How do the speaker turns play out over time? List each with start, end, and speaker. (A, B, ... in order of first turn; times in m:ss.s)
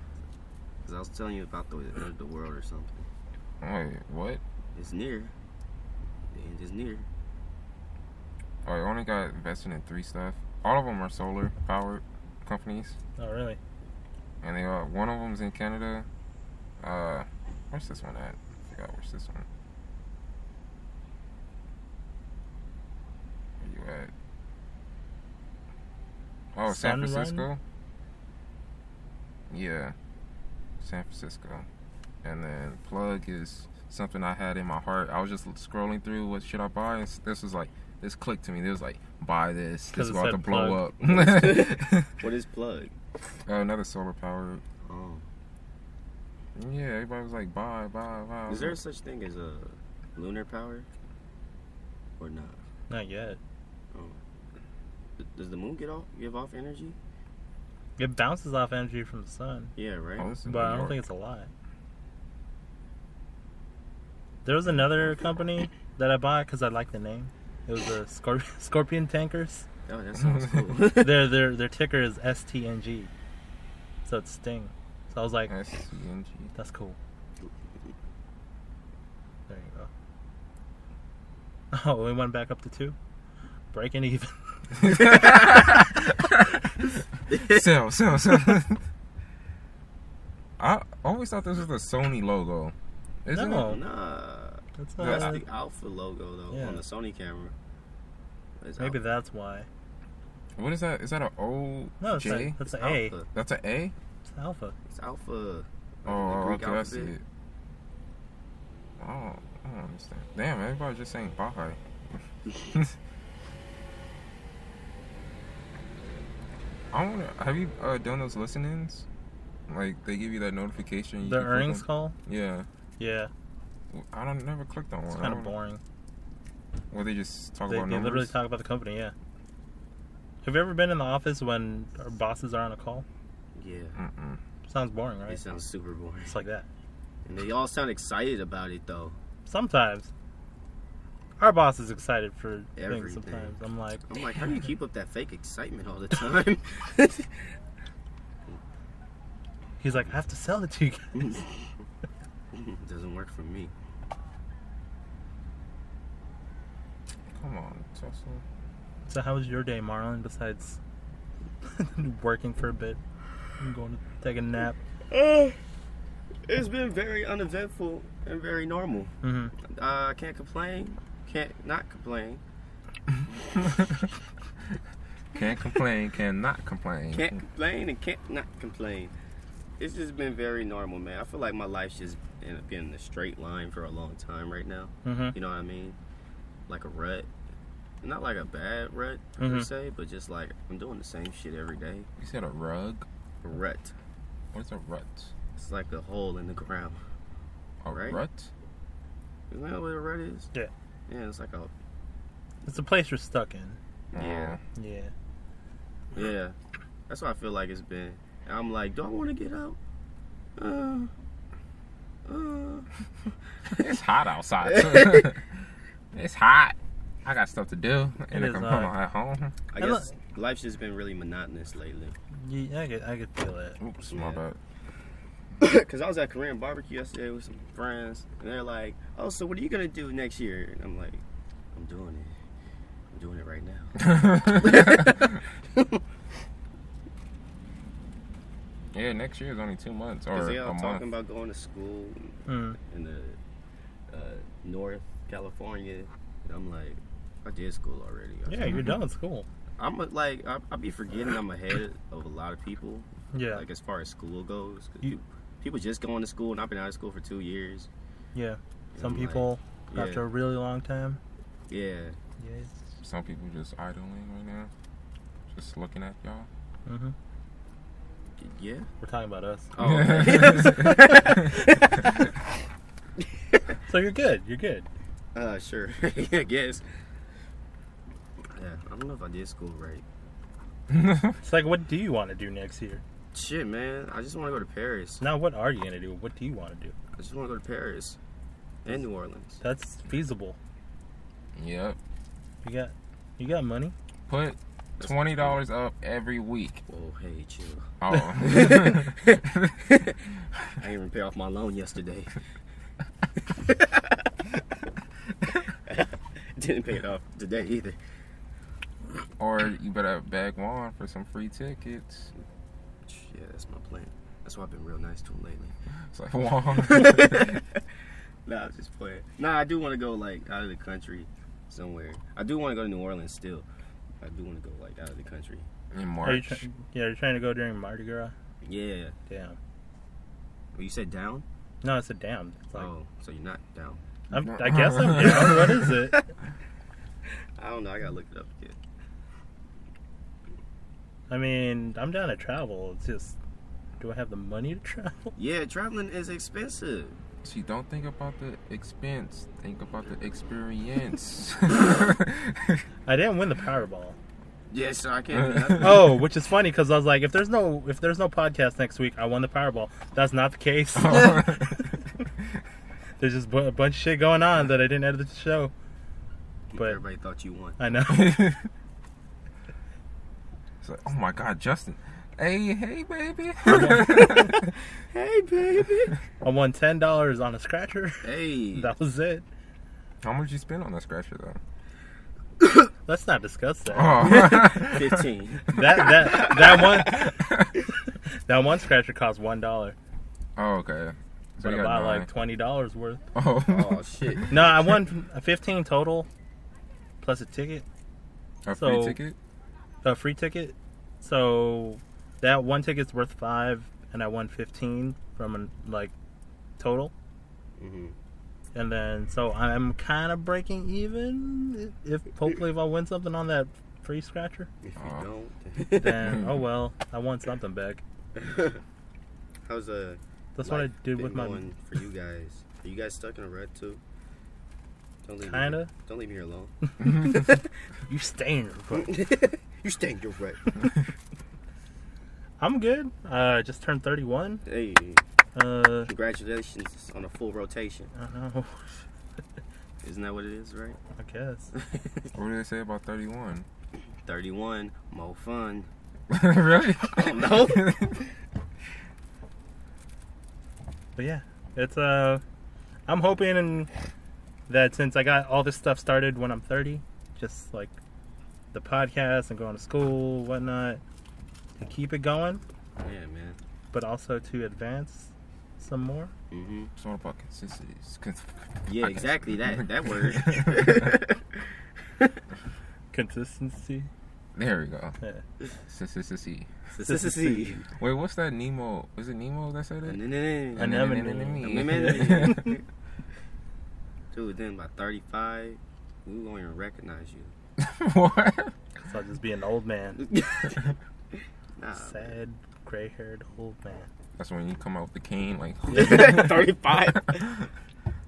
0:00.8-0:03.1 A
0:03.6-0:04.4 B
0:04.8-0:05.3 A
0:06.3-0:07.1 A
0:08.6-0:13.0 B
0:13.2-0:13.6 C
0:14.4-0:16.1 B
0:16.8-0:19.5 B
0:23.6-0:24.1 B
0:26.5-0:27.6 B
0:26.7-0:27.5 C
0:29.5-0:30.0 B
0:30.8-0:31.7 B
0:32.2-0:42.1 B
0:39.9-0:40.8 C
0:41.0-0:42.9 A
0:43.5-0:44.6 B
0:44.8-0:45.2 A
0:46.6-0:48.8 B
0:48.5-0:50.9 A
0:52.2-0:52.6 A
0:52.9-0:53.4 C
0:55.2-0:57.0 A
0:58.0-0:59.7 C
0:59.8-1:00.3 A
1:00.2-1:01.0 B
1:00.4-1:01.5 C
1:04.4-1:09.7 C
1:09.9-1:11.3 A
1:10.2-1:10.7 B
1:11.0-1:13.1 C
1:14.0-1:15.5 C
1:15.5-1:16.5 B
1:16.6-1:17.0 C
1:19.5-1:19.9 C
1:21.7-1:23.0 C
1:23.7-1:25.7 C
1:24.8-1:26.7 B
1:27.3-1:27.8 A
1:27.3-1:28.8 B
1:30.6-1:32.7 B
1:33.2-1:33.8 B
1:33.3-1:33.8 C
1:33.6-1:37.5 A
1:34.8-1:35.4 C
1:35.0-1:35.4 B
1:36.5-1:36.8 C
1:38.6-1:39.0 A
1:38.8-1:39.7 C
1:40.6-1:42.6 B
1:42.0-1:43.2 C
1:42.7-1:43.3 A
1:43.3-1:43.9 B
1:44.3-1:44.8 C
1:44.9-1:47.1 A
1:46.1-1:47.2 B
1:49.0-1:51.8 B
1:52.5-1:53.0 B
1:56.9-1:59.1 B
1:59.7-2:02.7 B
2:01.2-2:02.2 C
2:03.0-2:03.3 C
2:03.9-2:05.5 B
2:05.1-2:05.8 C
2:06.9-2:08.3 B
2:07.7-2:09.1 C
2:10.4-2:13.0 C
2:13.6-2:14.0 A
2:14.0-2:14.4 B
2:14.7-2:15.4 C
2:15.3-2:16.3 A
2:16.3-2:16.7 C
2:17.3-2:19.2 A
2:19.5-2:20.1 C
2:21.4-2:24.1 C
2:22.8-2:23.5 A
2:24.1-2:27.4 A
2:29.8-2:31.4 C
2:31.2-2:31.7 A
2:32.5-2:33.7 A
2:37.3-2:38.4 B
2:39.1-2:40.8 C
2:41.6-2:43.0 C
2:43.6-2:44.8 C
2:45.1-2:45.6 A
2:46.5-2:52.4 A
2:49.2-2:49.5 C
2:53.6-2:54.1 B
2:55.3-2:57.4 B
2:57.1-2:59.1 A
2:59.8-3:06.0 A
3:05.0-3:05.4 C
3:06.7-3:07.3 A
3:08.0-3:12.1 A
3:09.4-3:09.7 C
3:12.2-3:13.1 B
3:13.4-3:13.9 A
3:14.5-3:15.3 B
3:15.6-3:17.0 A
3:17.8-3:18.5 B
3:17.9-3:18.2 A
3:19.5-3:20.5 A
3:21.1-3:21.7 A
3:22.6-3:23.8 C
3:24.1-3:24.6 A
3:24.1-3:24.6 B
3:24.8-3:25.1 C
3:26.1-3:26.6 A
3:27.1-3:29.8 A
3:30.6-3:31.1 A
3:32.3-3:32.9 A
3:33.7-3:35.4 B
3:34.6-3:35.3 A
3:36.1-3:39.6 B
3:38.3-3:38.9 C
3:39.7-3:42.2 A
3:39.8-3:40.1 C
3:42.4-3:43.8 C
3:43.8-3:44.6 B
3:44.1-3:44.4 A
3:45.6-3:52.4 A
3:53.1-3:56.0 A
3:54.0-3:55.1 B
3:58.9-4:01.0 B
4:00.3-4:03.4 A
4:02.5-4:02.8 C
4:04.1-4:08.8 A
4:08.5-4:09.5 C
4:08.6-4:09.0 B
4:09.8-4:17.9 A
4:13.3-4:13.6 C
4:18.4-4:21.2 C
4:19.0-4:20.2 A
4:21.7-4:22.2 A
4:22.4-4:22.7 C
4:23.0-4:24.7 B
4:25.5-4:26.5 B
4:26.9-4:27.2 C
4:28.4-4:28.9 A
4:29.0-4:29.7 C
4:29.8-4:31.9 A
4:29.8-4:31.4 B
4:30.4-4:31.6 C
4:33.9-4:34.9 C
4:35.4-4:36.8 A
4:38.5-4:40.0 A
4:40.9-4:41.4 B
4:41.4-4:43.0 C
4:43.3-4:45.2 A
4:45.2-4:46.9 C
4:47.2-4:48.2 A
4:48.8-4:49.6 A
4:49.6-4:50.6 C
4:51.6-4:52.0 B
4:52.6-4:53.9 C
4:54.3-4:56.8 B
4:55.0-4:55.6 A
4:56.9-5:00.2 A
4:58.0-4:59.7 B
5:00.8-5:02.4 A
5:03.4-5:04.3 A
5:05.5-5:08.0 A
5:09.4-5:12.3 B
5:13.1-5:15.7 A
5:16.1-5:17.6 B
5:16.7-5:17.8 A
5:18.5-5:23.7 A
5:24.2-5:25.7 A
5:25.9-5:26.6 B
5:26.2-5:28.3 C
5:28.6-5:29.2 A
5:29.3-5:29.6 C
5:30.8-5:31.4 A
5:31.8-5:32.9 C
5:32.8-5:34.0 A
5:34.3-5:36.3 C
5:34.4-5:35.8 B
5:37.6-5:38.8 A
5:41.3-5:43.4 C
5:44.0-5:45.3 C
5:45.4-5:47.2 A
5:47.4-5:52.8 B
5:53.1-5:54.2 C
5:54.7-5:56.2 A
5:55.4-5:56.0 B
5:55.8-6:01.8 C
6:01.0-6:01.9 B
6:03.2-6:05.7 C
6:06.7-6:07.8 A
6:06.8-6:07.0 C
6:07.8-6:08.5 C
6:08.1-6:08.6 B
6:10.8-6:14.7 B
6:13.7-6:14.5 C
6:13.9-6:14.6 A
6:15.1-6:16.2 A
6:16.4-6:19.4 C
6:18.2-6:18.9 A
6:20.2-6:21.6 B
6:23.1-6:24.5 C
6:23.9-6:25.3 B
6:24.2-6:26.9 A
6:25.7-6:27.3 C
6:27.1-6:27.7 B
6:28.5-6:30.0 C
6:30.6-6:32.3 B
6:31.6-6:33.2 C
6:33.4-6:34.7 B
6:33.7-6:34.7 A
6:34.5-6:36.3 C
6:37.2-6:37.8 C
6:38.7-6:39.4 B
6:38.7-6:39.2 C
6:40.0-6:46.1 C
6:46.8-6:47.1 C
6:47.8-6:48.2 A
6:48.8-6:54.7 C
6:54.8-6:56.4 A
6:55.0-6:55.3 B
6:55.9-6:58.0 C
6:56.2-6:56.6 B
6:58.4-6:58.8 A
6:59.6-7:04.0 A
7:00.6-7:01.6 C
7:05.2-7:07.6 A
7:05.4-7:05.9 C
7:07.0-7:09.2 C
7:08.9-7:10.8 A
7:12.6-7:14.6 C
7:14.7-7:15.2 A
7:15.6-7:16.1 C
7:16.1-7:18.1 A
7:18.1-7:19.0 C
7:20.0-7:21.0 A
7:21.2-7:21.7 C
7:21.8-7:22.3 A
7:22.4-7:23.7 B
7:24.2-7:25.9 A
7:26.3-7:28.2 B
7:27.1-7:28.3 A
7:31.2-7:32.4 C
7:33.1-7:33.9 C
7:34.7-7:38.0 C
7:38.7-7:41.0 C
7:41.8-7:42.6 C
7:43.0-7:43.6 A
7:43.9-7:46.3 C
7:46.5-7:46.9 A
7:47.0-7:51.2 B
7:48.9-7:51.6 A
7:53.1-7:54.1 C
7:54.6-7:55.2 B
7:55.9-7:56.7 B
7:56.9-7:57.9 A
7:57.0-7:57.8 C
7:58.0-8:00.2 B
8:00.0-8:01.0 A
8:00.8-8:02.7 B
8:00.8-8:02.8 C
8:01.6-8:02.8 A
8:04.3-8:07.5 A
8:07.8-8:08.7 B
8:09.0-8:10.3 C
8:10.2-8:11.0 A
8:11.8-8:12.4 A
8:11.9-8:14.1 C
8:14.4-8:16.8 B
8:15.9-8:17.6 A